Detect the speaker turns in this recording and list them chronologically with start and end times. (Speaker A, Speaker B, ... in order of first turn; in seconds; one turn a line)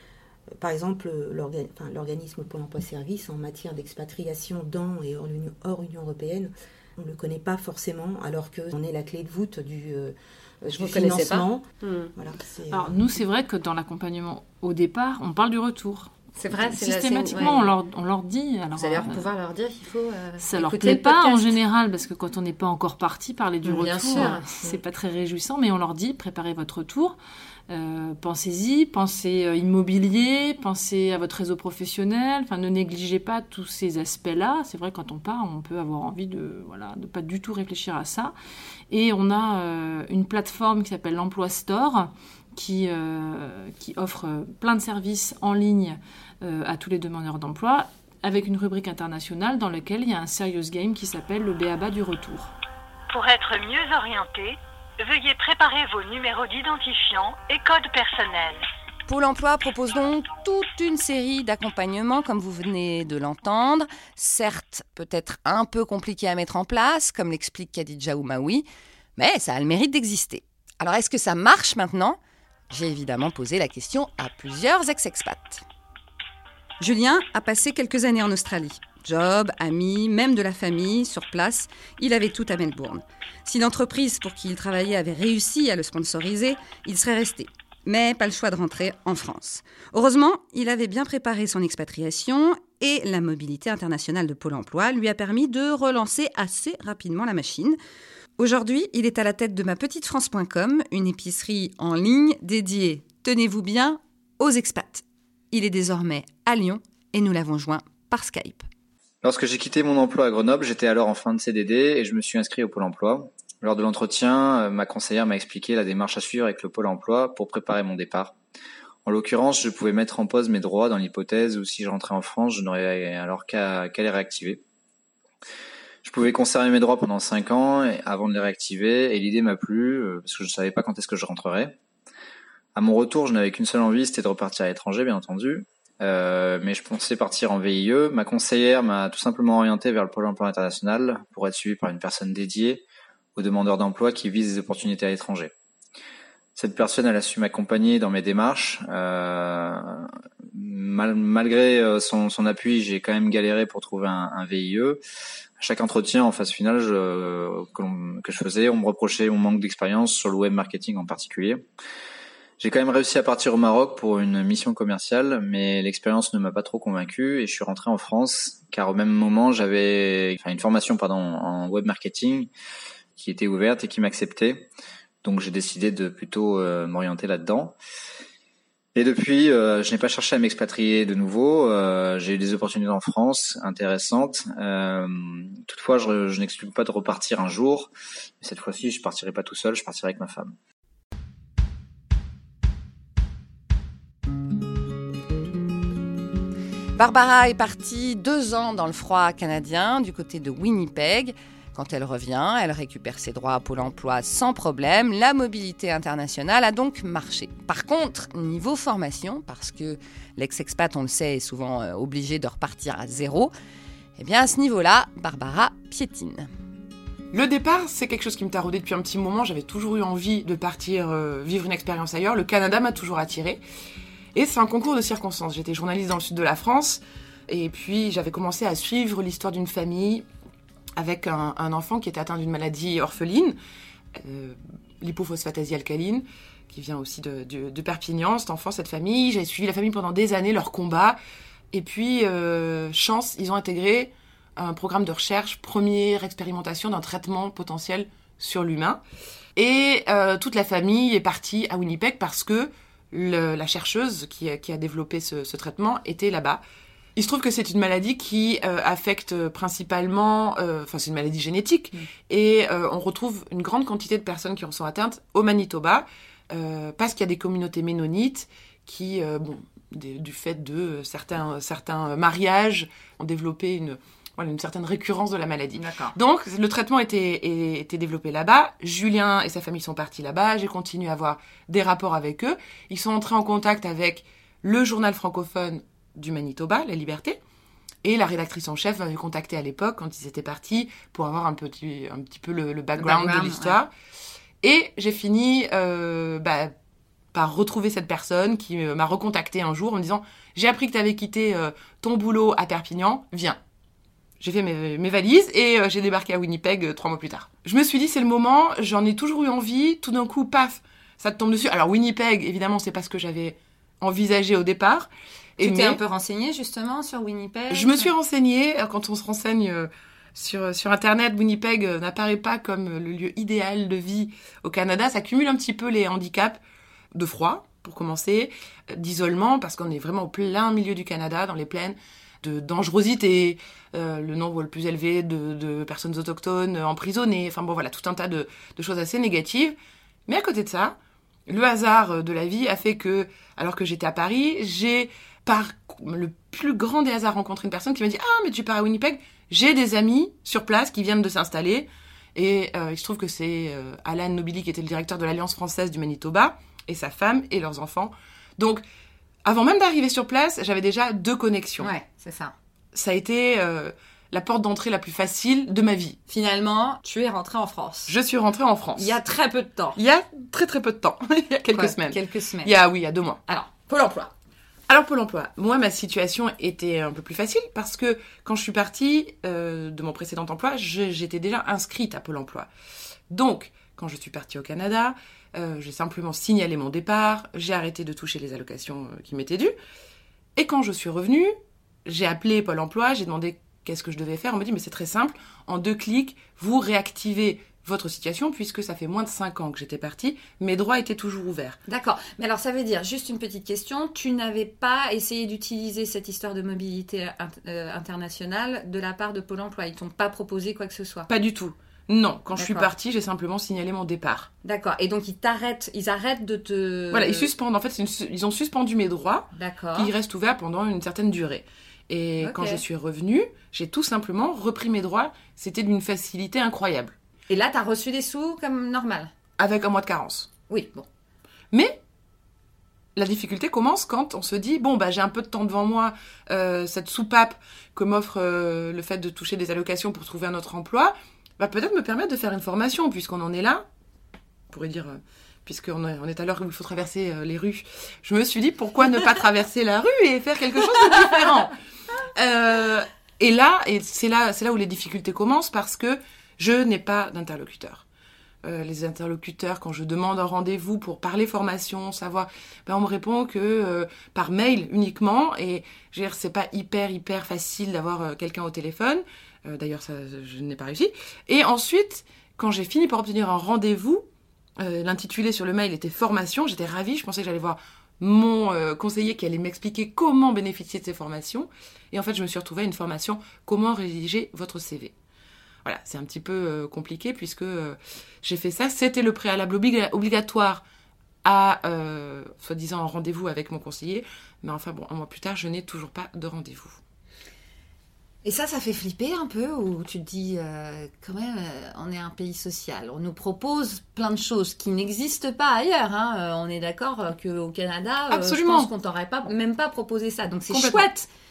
Speaker A: 0.6-12.9
Speaker B: 10.7-12.1
Speaker C: 12.7-19.3
Speaker B: 16.3-17.7
Speaker B: 18.7-21.6
Speaker C: 20.4-27.1
Speaker B: 23.6-24.8
Speaker C: 27.7-38.3
Speaker C: 38.9-52.5
Speaker D: 53.1-58.6
Speaker E: 59.1-68.7
Speaker E: 69.2-72.2
Speaker E: 72.7-75.6
Speaker E: 76.8-97.8
Speaker E: 98.4-108.7
Speaker F: 109.2-118.3
Speaker F: 119.0-124.6
Speaker F: 126.0-131.8
Speaker F: 132.7-142.8
Speaker F: 143.3-145.5
Speaker F: 146.6-155.0
Speaker F: 155.6-161.6
Speaker F: 162.6-172.5
Speaker F: 173.2-174.7
Speaker F: 175.2-177.8
Speaker F: 178.9-190.6
Speaker E: 196.9-213.5
Speaker E: 214.2-216.5
Speaker G: 217.3-223.6
Speaker G: 224.3-230.2
Speaker G: 230.9-233.6
Speaker G: 234.2-241.2
Speaker G: 241.7-249.0
Speaker G: 249.6-256.6
Speaker G: 257.1-287.4
Speaker E: 275.8-276.1
Speaker G: 288.0-293.9
Speaker E: 293.0-293.8
Speaker G: 294.6-296.7
Speaker G: 297.3-303.6
Speaker G: 304.4-316.0
Speaker E: 315.6-318.1
Speaker G: 317.7-326.6
Speaker G: 327.1-339.8
Speaker G: 340.3-358.8
Speaker G: 359.4-361.9
Speaker E: 361.8-362.5
Speaker G: 362.9-366.2
Speaker E: 366.3-368.1
Speaker G: 368.1-369.1
Speaker E: 369.0-370.0
Speaker G: 369.9-373.4
Speaker E: 371.7-372.8
Speaker E: 373.5-374.3
Speaker G: 374.9-382.7
Speaker G: 383.3-389.7
Speaker G: 390.6-391.5
Speaker G: 392.0-401.8
Speaker E: 401.9-411.3
Speaker G: 411.3-414.5
Speaker E: 412.5-412.9
Speaker E: 414.6-417.5
Speaker G: 417.1-427.1
Speaker E: 419.5-420.1
Speaker E: 422.4-422.8
Speaker E: 427.5-429.3
Speaker G: 429.6-430.5
Speaker E: 430.7-431.0
Speaker G: 431.7-432.0
Speaker G: 433.1-443.9
Speaker G: 444.7-451.7
Speaker G: 452.4-458.0
Speaker G: 458.6-474.2
Speaker G: 474.8-485.1
Speaker G: 485.8-490.8
Speaker G: 491.4-497.0
Speaker E: 498.4-511.3
Speaker G: 508.3-508.9
Speaker G: 510.7-511.1